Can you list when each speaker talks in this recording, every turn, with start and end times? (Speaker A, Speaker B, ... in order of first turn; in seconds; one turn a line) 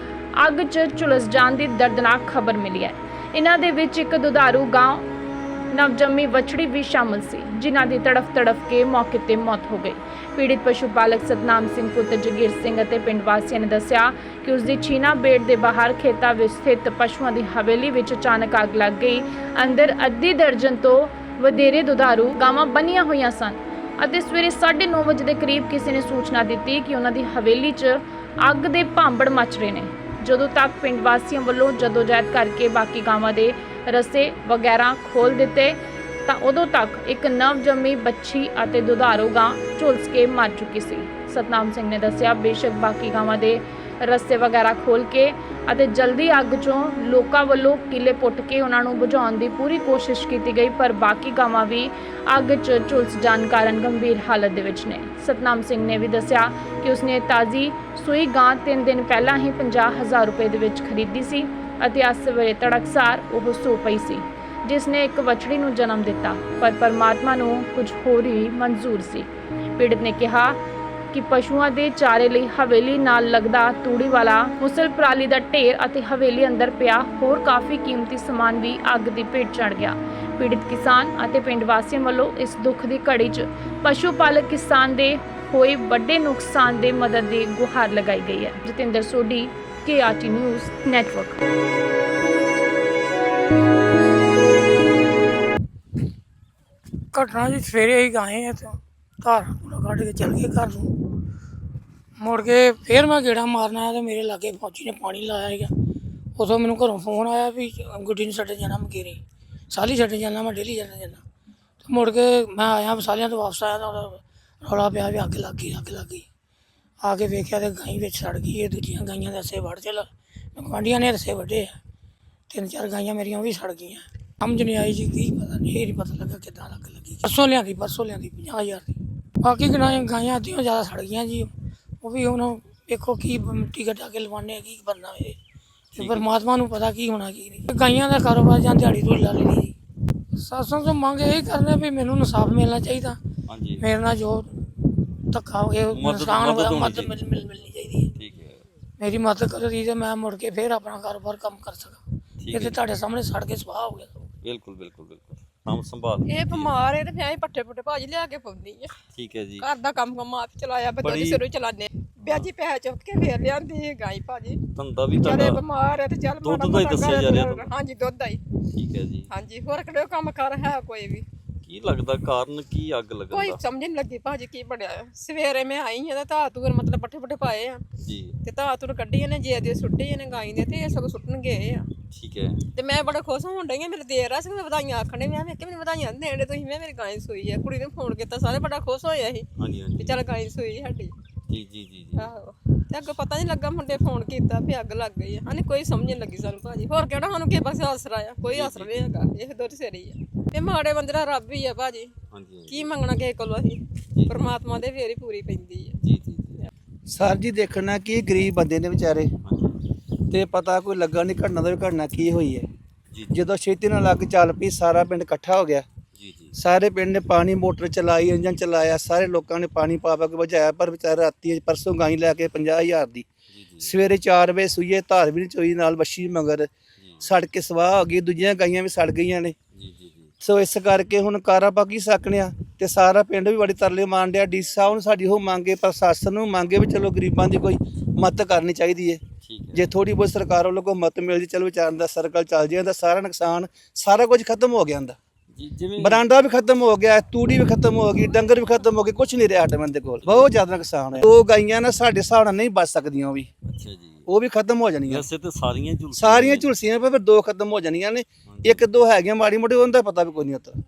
Speaker A: 0.4-5.0
Speaker A: 5.7-70.6
Speaker A: 71.1-91.4
Speaker B: 97.1-100.9
Speaker B: 102.2-105.7
Speaker B: 106.4-109.2
Speaker B: 109.7-111.2
Speaker B: 111.8-116.2
Speaker B: 117.0-121.8
Speaker B: 122.5-135.4
Speaker C: 135.9-136.3
Speaker B: 136.0-139.8
Speaker B: 140.3-143.2
Speaker C: 143.5-143.9
Speaker B: 143.8-148.1
Speaker C: 145.9-147.2
Speaker C: 148.2-148.6
Speaker B: 149.0-154.2
Speaker C: 152.4-152.8
Speaker C: 154.4-156.8
Speaker D: 156.3-158.9
Speaker C: 159.1-159.7
Speaker D: 159.6-164.6
Speaker C: 161.0-161.4
Speaker C: 162.2-162.5
Speaker C: 164.7-165.6
Speaker D: 165.1-168.4
Speaker C: 166.4-167.7
Speaker C: 168.7-169.3
Speaker D: 169.3-171.2
Speaker C: 171.6-173.6
Speaker D: 173.3-177.8
Speaker C: 178.0-178.4
Speaker D: 178.4-181.9
Speaker C: 182.1-182.6
Speaker D: 182.8-191.1
Speaker C: 189.6-190.2
Speaker C: 191.5-192.3
Speaker D: 192.2-202.1
Speaker C: 198.5-199.1
Speaker C: 202.3-202.9
Speaker D: 202.7-205.9
Speaker C: 206.0-206.7
Speaker E: 207.1-209.3
Speaker C: 209.4-209.8
Speaker E: 210.3-212.7
Speaker C: 213.1-213.4
Speaker E: 213.3-215.8
Speaker C: 216.1-216.6
Speaker E: 216.6-223.2
Speaker C: 223.5-223.9
Speaker E: 223.8-226.7
Speaker C: 227.0-227.3
Speaker E: 227.2-229.5
Speaker C: 229.7-230.3
Speaker E: 230.4-239.2
Speaker C: 239.4-239.9
Speaker E: 239.7-245.2
Speaker C: 245.5-246.2
Speaker E: 246.0-253.5
Speaker C: 250.2-250.5
Speaker C: 253.6-254.3
Speaker E: 254.3-255.3
Speaker C: 255.1-256.7
Speaker E: 256.1-260.8
Speaker C: 258.5-258.8